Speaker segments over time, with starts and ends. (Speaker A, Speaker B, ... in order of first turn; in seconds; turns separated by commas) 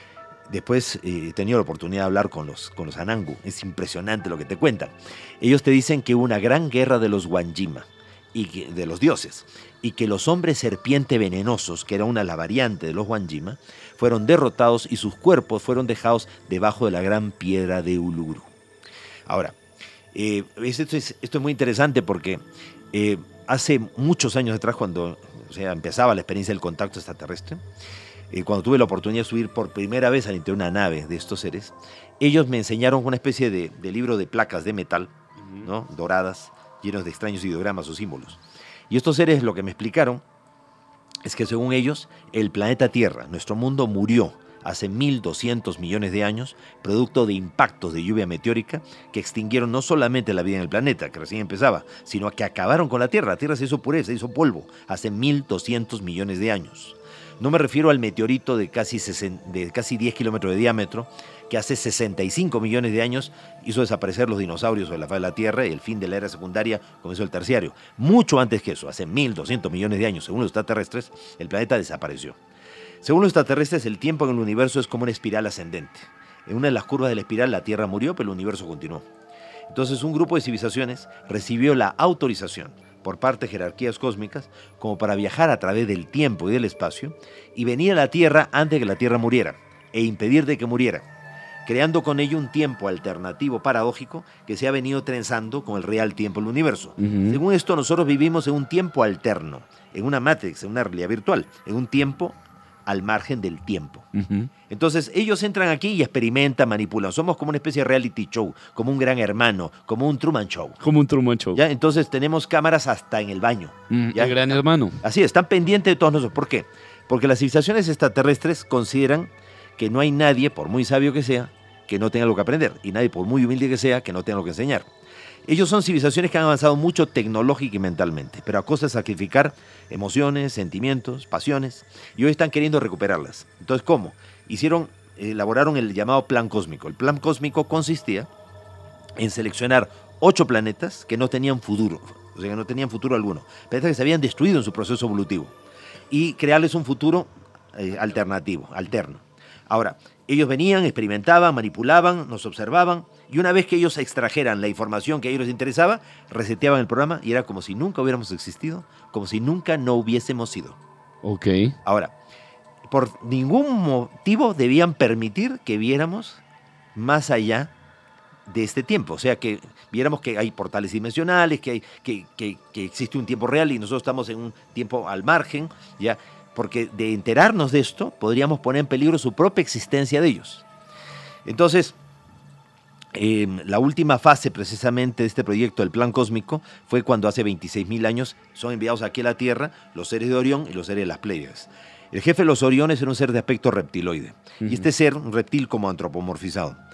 Speaker A: 0.5-18.5, Speaker A: 19.3-19.6, Speaker A: 20.1-22.4, Speaker A: 22.9-27.6, Speaker A: 28.3-40.2, Speaker A: 41.2-72.4, Speaker A: 73.0-79.1, Speaker A: 79.7-91.1, Speaker A: 91.7-104.1, Speaker B: 97.0-97.4, Speaker B: 104.2-104.5, Speaker A: 104.7-110.8, Speaker B: 110.8-111.6, Speaker A: 111.5-124.9, Speaker B: 113.9-115.0, Speaker A: 125.5-138.3, Speaker A: 139.2-145.5, Speaker A: 146.1-160.8, Speaker B: 161.2-161.8, Speaker A: 161.8-162.1, Speaker A: 162.9-166.4, Speaker A: 166.9-167.7, Speaker A: 168.5-180.7, Speaker A: 181.4-182.0, Speaker A: 183.1-196.8